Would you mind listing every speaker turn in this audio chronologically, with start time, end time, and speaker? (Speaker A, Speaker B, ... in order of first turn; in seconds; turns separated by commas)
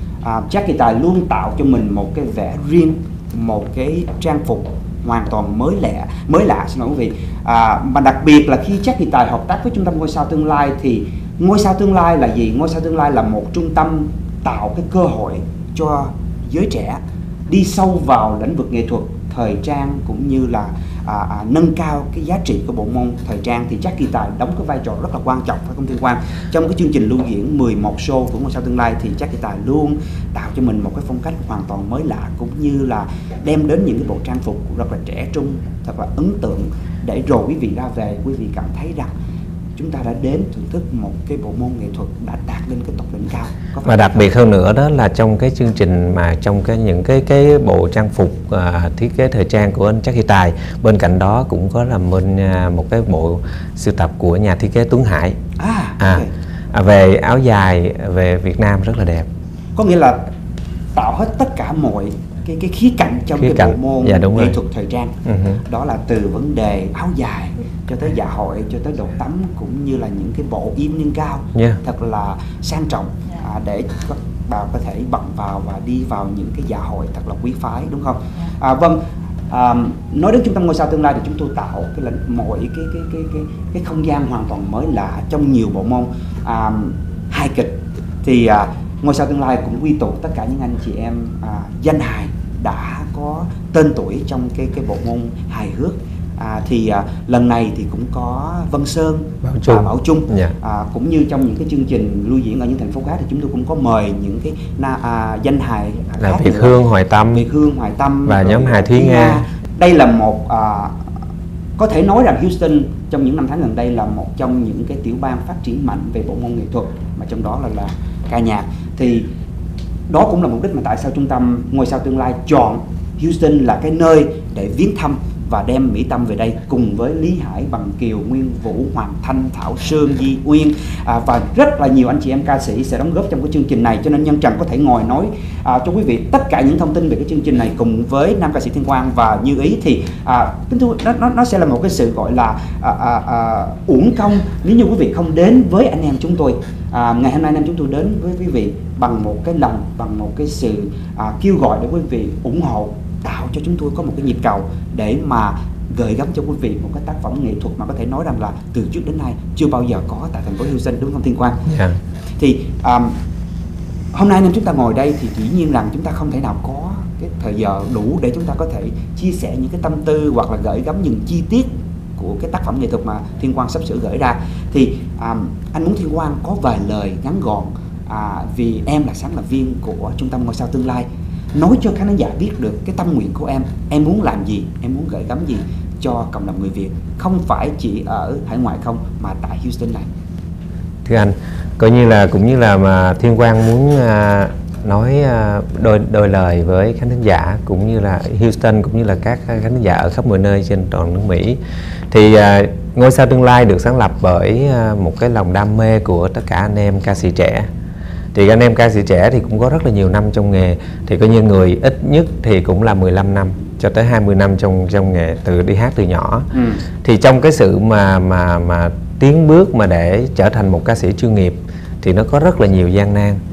Speaker A: 0.2-39.1, Speaker A: 39.8-44.3, Speaker B: 43.8-55.4, Speaker A: 55.6-56.3, Speaker B: 56.0-59.3, Speaker A: 59.8-60.2, Speaker A: 61.0-106.8, Speaker B: 63.4-64.6, Speaker B: 65.2-65.6, Speaker B: 71.5-71.8, Speaker B: 99.4-100.5, Speaker B: 106.2-107.5, Speaker A: 107.3-111.0, Speaker B: 108.3-109.4, Speaker A: 111.8-119.3, Speaker A: 120.1-161.6, Speaker B: 161.7-162.0, Speaker A: 162.4-163.2, Speaker A: 164.1-190.1, Speaker B: 191.1-201.6, Speaker B: 202.1-207.7, Speaker B: 208.3-216.5, Speaker A: 216.5-216.8, Speaker B: 217.0-223.4